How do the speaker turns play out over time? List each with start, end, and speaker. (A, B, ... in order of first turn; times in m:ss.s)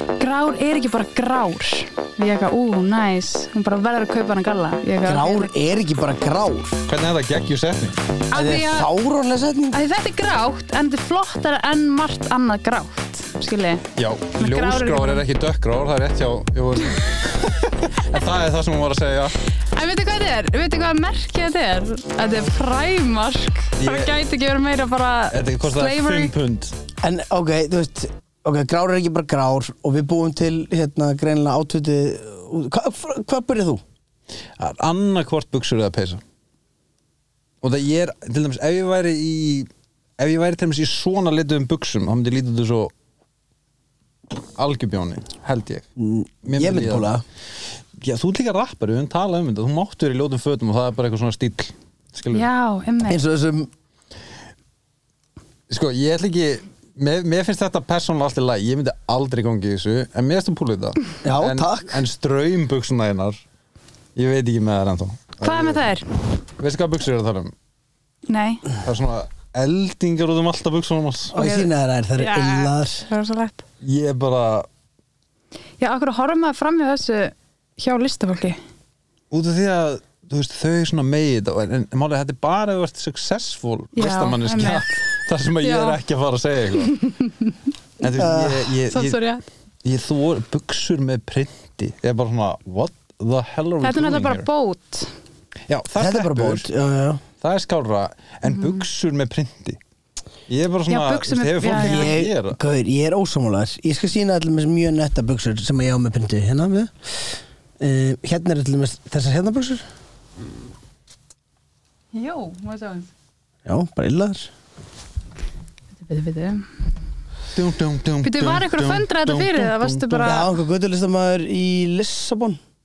0:00.2-0:05.5 A
0:05.0-0:06.8 B
0:06.9-0:08.0 C
0:08.3-0:08.9 A
0:08.3-0:09.8 B
0:09.7-0:13.8 A
0:14.0-0:19.4 C
0:14.4-0:15.2 A
0:19.7-0:26.3 A
0:23.8-0:24.1 C
0:25.3-0:26.8 C
0:27.0-0:33.8 B
0:34.6-0:36.2 C
0:37.6-0:42.9 C
0:44.6-0:45.8 C
0:46.0-0:47.2 B
0:46.4-0:47.1 C
0:48.0-0:52.5 C
0:52.3-0:53.2 A
0:53.1-0:53.7 B
0:55.7-1:03.4 C
1:01.2-1:02.0 B
1:04.2-1:05.8 C
1:05.4-1:06.1 A
1:06.6-1:07.5 C
1:08.3-1:08.6 A
1:08.8-1:11.4 C
1:11.3-1:13.1 B
1:11.4-1:13.6 A
1:13.8-1:14.7 C
1:15.8-1:18.6 A
1:19.3-1:27.0 C
1:24.0-1:25.1 A
1:25.6-1:26.0 A
1:26.9-1:27.5 A
1:28.0-1:29.2 C
1:28.2-1:28.7 B
1:28.9-1:29.5 A
1:29.8-1:34.5 C
1:33.8-1:35.1 A
1:35.7-1:36.7 C
1:36.0-1:37.2 B
1:37.4-1:39.8 C
1:38.5-1:38.8 A
1:40.5-1:42.6 C
1:40.9-1:42.2 A
1:41.7-1:49.8 B
1:52.1-1:53.1 A
1:53.6-1:54.5 B
1:56.0-1:56.7 A
1:57.5-2:00.4 C
1:58.2-2:00.5 A
2:00.2-2:02.6 B